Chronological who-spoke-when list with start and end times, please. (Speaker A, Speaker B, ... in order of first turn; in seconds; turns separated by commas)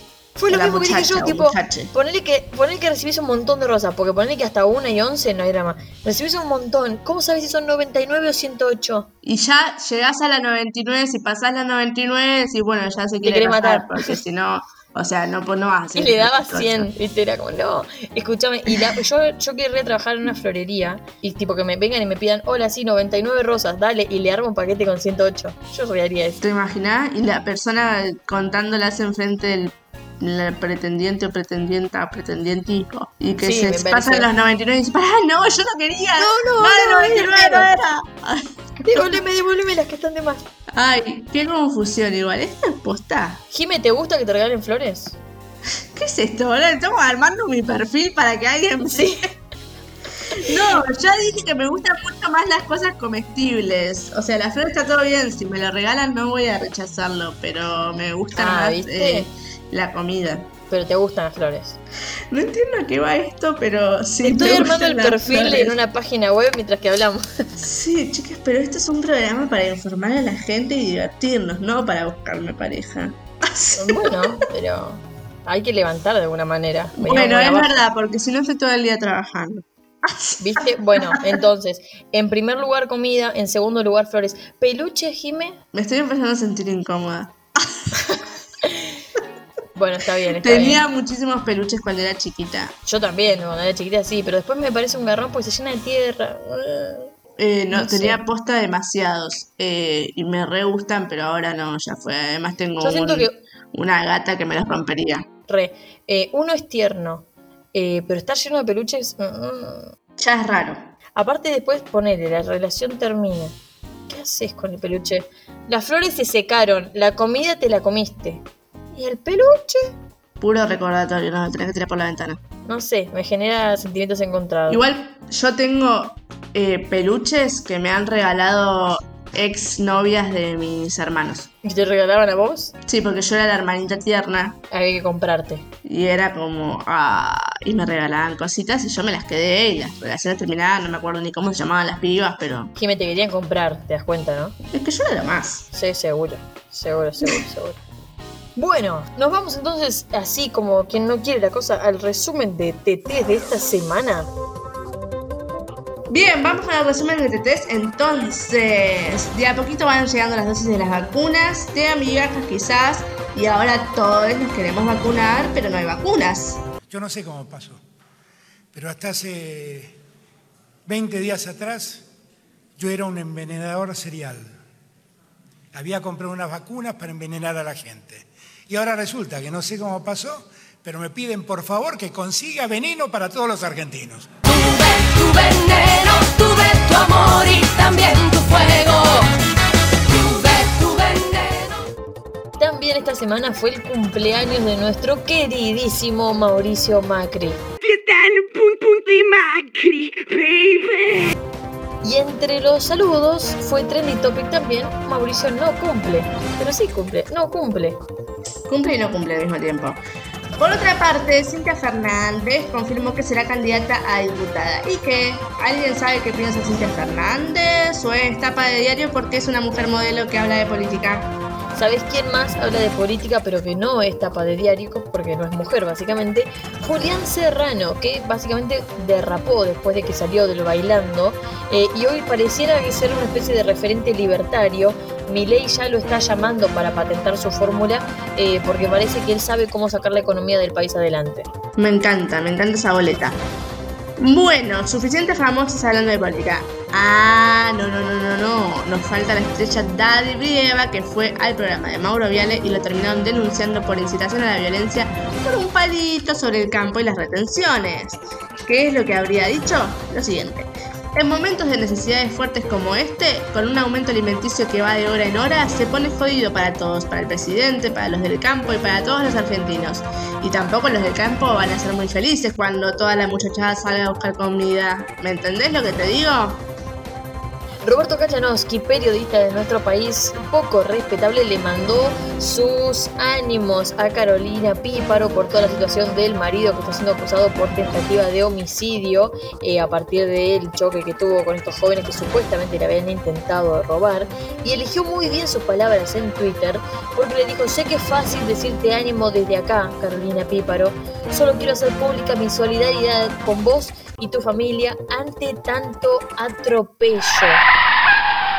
Speaker A: 0.4-9.1, Speaker B: 0.5-1.9, Speaker B: 9.2-16.9, Speaker A: 13.2-14.2, Speaker A: 15.9-26.4, Speaker B: 26.4-39.1, Speaker A: 33.4-34.3, Speaker A: 36.2-37.7, Speaker A: 38.8-40.4, Speaker B: 40.7-43.4, Speaker A: 43.5-45.2, Speaker B: 45.9-49.3, Speaker A: 48.9-49.3, Speaker A: 50.3-50.8, Speaker B: 50.3-60.5, Speaker A: 58.4-59.3, Speaker A: 60.7-61.8, Speaker B: 62.3-65.8, Speaker A: 64.2-67.5, Speaker B: 67.6-74.3, Speaker A: 73.8-77.8, Speaker B: 77.0-81.4, Speaker A: 80.4-85.6, Speaker B: 85.7-88.1, Speaker A: 88.1-89.0, Speaker A: 89.8-90.8, Speaker B: 90.4-92.7, Speaker A: 92.8-97.1, Speaker B: 97.4-105.2, Speaker A: 97.7-98.2, Speaker A: 102.8-103.4, Speaker A: 105.5-109.9, Speaker B: 110.2-110.8, Speaker A: 111.2-113.5, Speaker A: 114.1-119.9, Speaker B: 120.4-122.4, Speaker A: 122.7-124.8, Speaker B: 124.7-131.5, Speaker A: 131.6-132.7, Speaker B: 132.8-134.6, Speaker A: 134.7-135.7, Speaker B: 135.8-142.7, Speaker A: 142.8-144.6, Speaker B: 144.7-145.7, Speaker A: 145.7-147.8, Speaker A: 148.6-154.3, Speaker B: 156.1-166.6, Speaker C: 166.9-167.8, Speaker C: 168.7-169.9, Speaker C: 170.8-172.0, Speaker C: 172.8-174.5, Speaker C: 175.7-184.3, Speaker D: 184.4-189.3, Speaker D: 190.1-191.8, Speaker A: 192.6-197.6, Speaker B: 197.8-201.3, Speaker A: 202.0-208.0, Speaker B: 208.7-210.0, Speaker B: 210.6-221.3, Speaker A: 221.7-241.5, Speaker B: 241.8-243.4, Speaker B: 244.2-276.6, Speaker A: 277.8-307.6